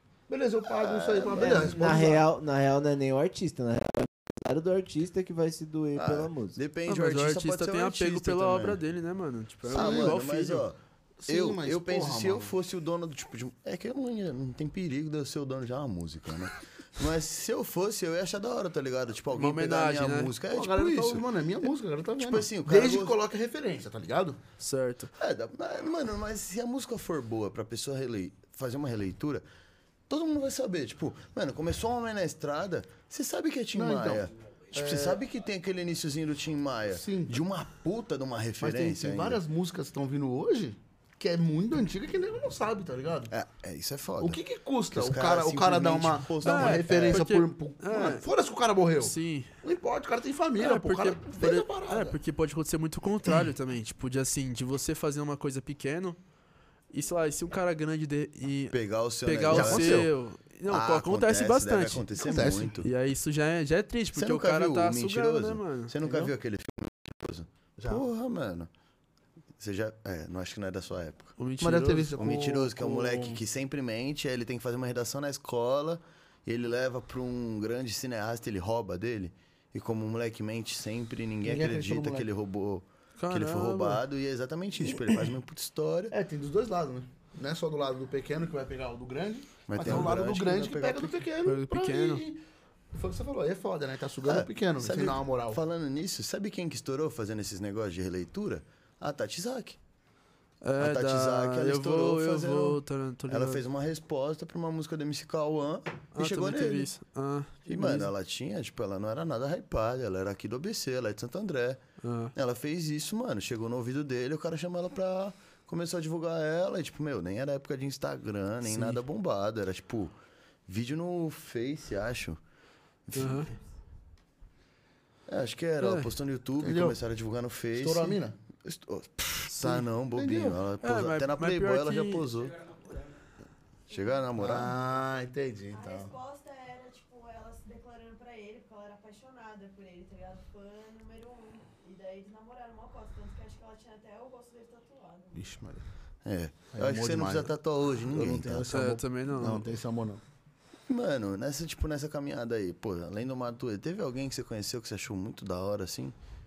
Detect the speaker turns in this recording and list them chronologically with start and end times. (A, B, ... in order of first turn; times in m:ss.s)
0:00.3-0:02.2 A
0:00.7-0:01.8 B
0:01.3-0:06.6 C
0:05.9-0:08.8 B
0:06.9-0:10.6 D
0:09.7-0:23.2 B
0:09.7-0:10.2 A
0:11.2-0:12.5 A
0:19.3-0:20.3 D
0:20.5-0:24.4 A
0:24.6-0:25.1 D
0:25.2-0:29.4 B
0:30.1-0:39.4 B
0:33.7-0:35.2 A
0:36.9-0:37.4 A
0:38.6-0:43.3 A
0:43.3-0:47.2 B
0:44.2-0:52.2 A
0:46.4-0:48.2 D
0:49.0-0:49.5 D
0:50.6-0:56.2 D
0:56.9-1:02.2 D
0:58.7-1:00.1 B
0:59.5-1:00.1 A
1:00.7-1:02.9 B
1:02.2-1:02.7 A
1:02.7-1:06.0 D
1:04.1-1:08.7 B
1:06.0-1:06.3 A
1:07.8-1:08.0 A
1:09.6-1:11.3 B
1:11.4-1:12.3 D
1:11.6-1:13.3 A
1:12.2-1:26.1 B
1:21.4-1:22.3 A
1:23.2-1:24.0 D
1:26.1-1:32.4 A
1:29.7-1:31.2 B
1:29.8-1:30.1 D
1:31.4-1:32.2 D
1:32.9-1:35.6 A
1:34.2-1:39.8 B
1:40.6-1:43.6 D
1:40.8-1:46.9 B
1:46.1-1:48.1 D
1:47.7-1:51.8 B
1:52.0-1:52.3 D
1:52.3-2:00.1 B
1:58.6-1:59.0 D
2:00.7-2:02.4 B
2:03.1-2:03.5 B
2:03.1-2:03.5 D
2:05.3-2:12.6 B
2:05.8-2:06.1 D
2:06.6-2:07.0 A
2:07.7-2:08.3 A
2:09.7-2:10.6 A
2:10.8-2:12.3 D
2:13.9-2:14.7 B
2:13.9-2:14.2 E
2:14.4-2:16.1 A
2:15.7-2:25.5 E
2:25.3-2:25.8 A
2:26.2-2:28.7 B
2:26.7-2:30.2 A
2:28.7-2:29.6 D
2:30.9-2:36.1 B